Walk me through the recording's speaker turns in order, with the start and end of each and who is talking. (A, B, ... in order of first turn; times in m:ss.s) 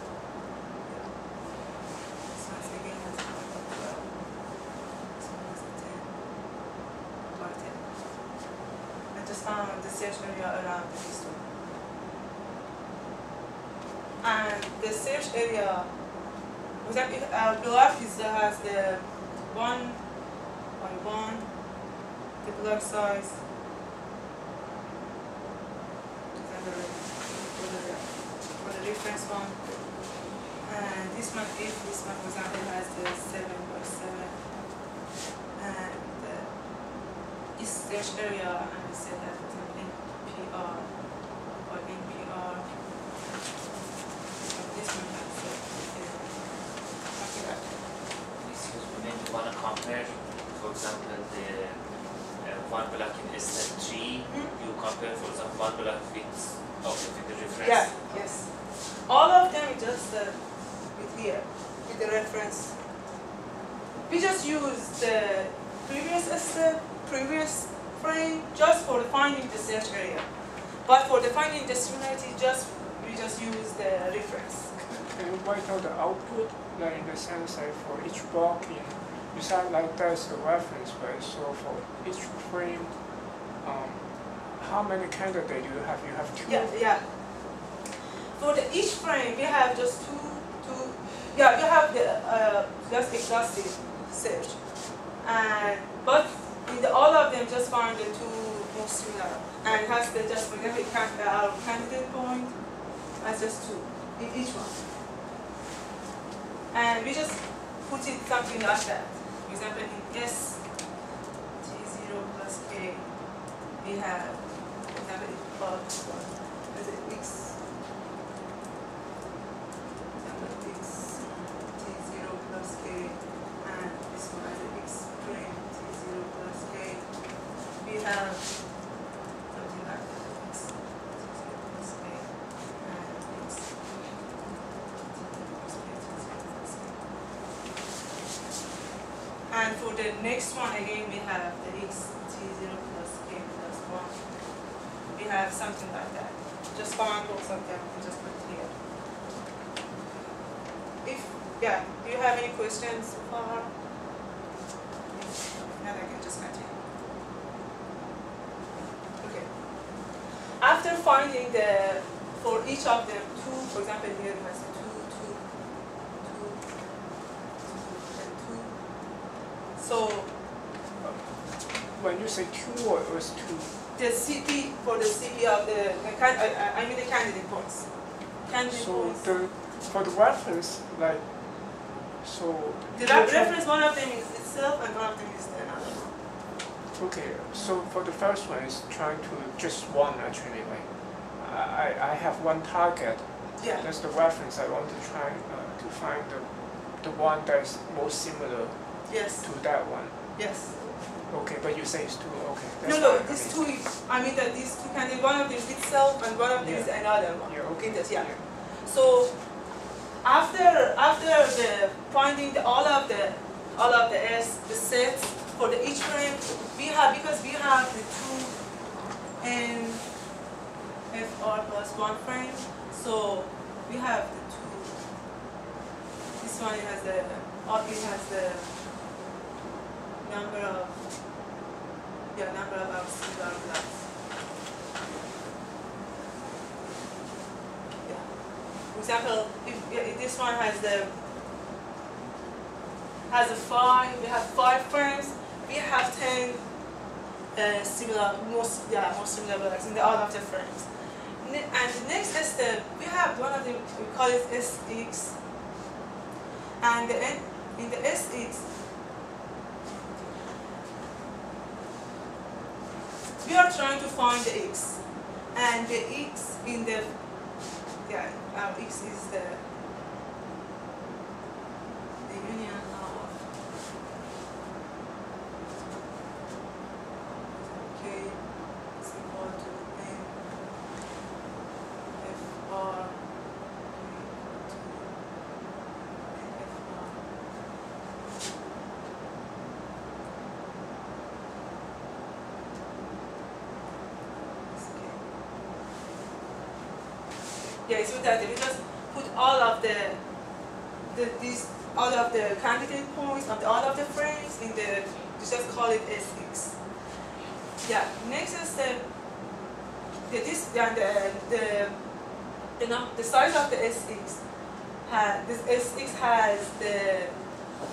0:00.8-0:06.7 A
0:07.3-0:07.9 A
0:09.1-0:11.5 A
0:14.2-0:16.3 A
0:16.8-0:21.9 A
0:22.4-0:23.4 A
0:26.3-0:34.6 A
0:35.6-0:42.7 A
0:44.4-0:47.7 A
0:48.4-0:58.4 B
0:54.3-0:54.5 A
0:57.6-1:02.8 A
1:04.1-1:10.3 A
1:10.8-1:15.1 A
1:15.1-1:26.9 C
1:26.5-1:27.6 A
1:28.4-1:44.8 A
1:46.7-1:51.0 A
1:51.6-1:57.6 A
2:00.2-2:09.0 A
2:09.5-2:14.3 A
2:15.1-2:17.0 A
2:19.5-2:28.8 A
2:30.8-2:33.7 A
2:35.1-2:36.8 A
2:39.2-2:47.1 A
2:47.6-2:50.4 A
2:51.0-2:53.8 C
2:54.0-2:59.3 A
2:58.7-3:03.6 C
3:03.0-3:06.2 A
3:06.9-3:23.6 C
3:13.6-3:13.9 A
3:19.1-3:20.8 A
3:22.8-3:40.3 A
3:26.6-3:28.4 C
3:41.1-3:45.0 A
3:46.4-3:48.7 A
3:50.2-3:51.0 A
3:52.3-3:54.1 A
3:58.0-4:01.1 A
4:03.3-4:06.7 A
4:07.5-4:10.9 A
4:11.4-4:15.4 A
4:16.8-4:18.7 A
4:23.4-4:29.6 A
4:32.2-4:33.5 A
4:37.9-4:40.5 A
4:42.2-4:45.1 A
4:46.2-4:47.3 A
4:54.7-4:55.2 A
4:57.8-5:00.4 A
5:01.1-5:06.8 A
5:07.8-5:09.1 A
5:10.3-5:14.4 A
5:15.0-5:17.5 A